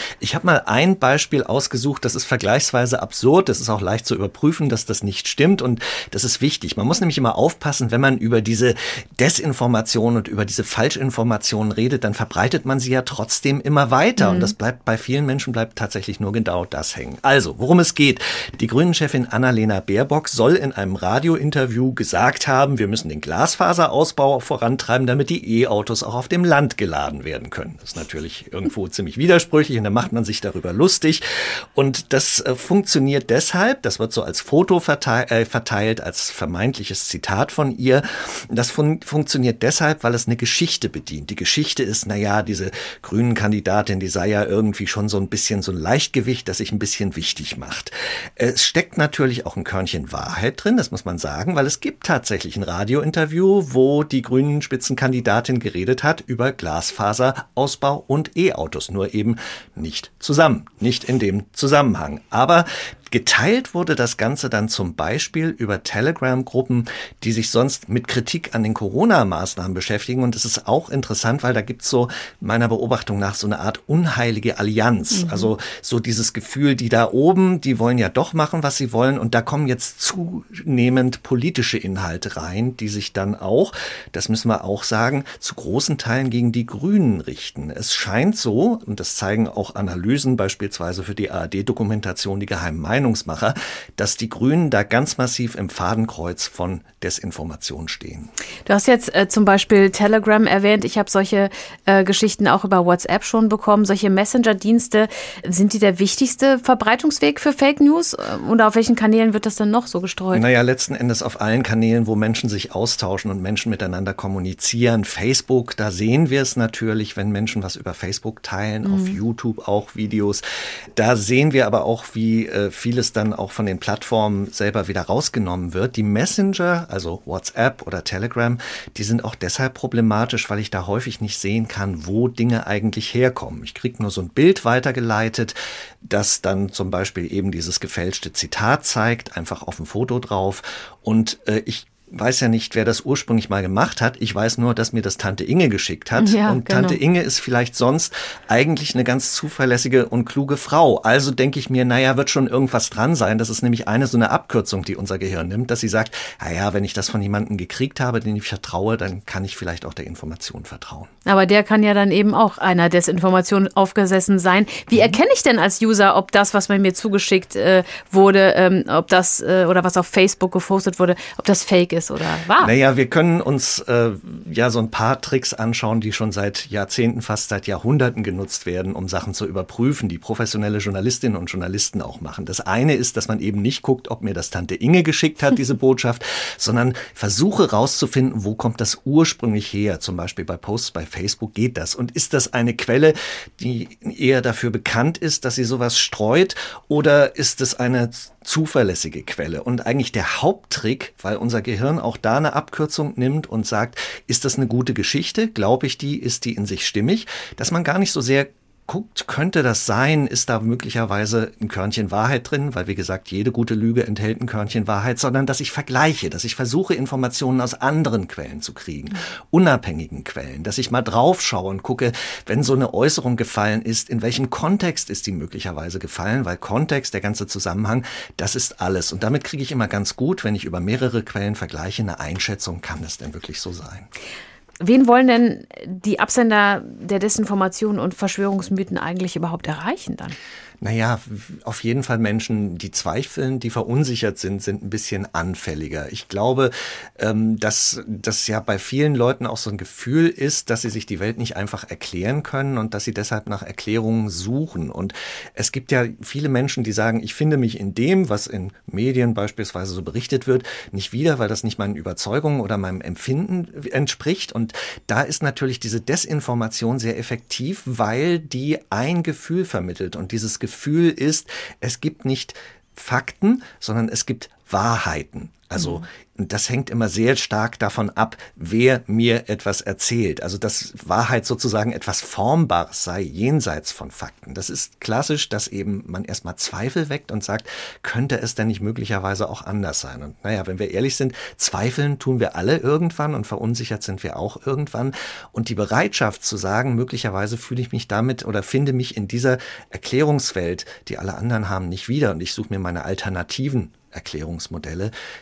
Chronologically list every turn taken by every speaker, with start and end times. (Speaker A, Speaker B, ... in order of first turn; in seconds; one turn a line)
Speaker A: 0.2-31.2
Speaker B: 14.2-14.5
Speaker A: 31.7-98.3
Speaker B: 75.1-75.5
Speaker B: 98.7-110.4
Speaker A: 110.3-120.4
Speaker B: 118.8-119.2
Speaker A: 121.0-161.1
Speaker B: 146.2-147.0
Speaker B: 161.2-172.7
Speaker A: 172.6-234.1
Speaker B: 234.8-240.3
Speaker A: 240.8-305.1
Speaker B: 275.8-276.0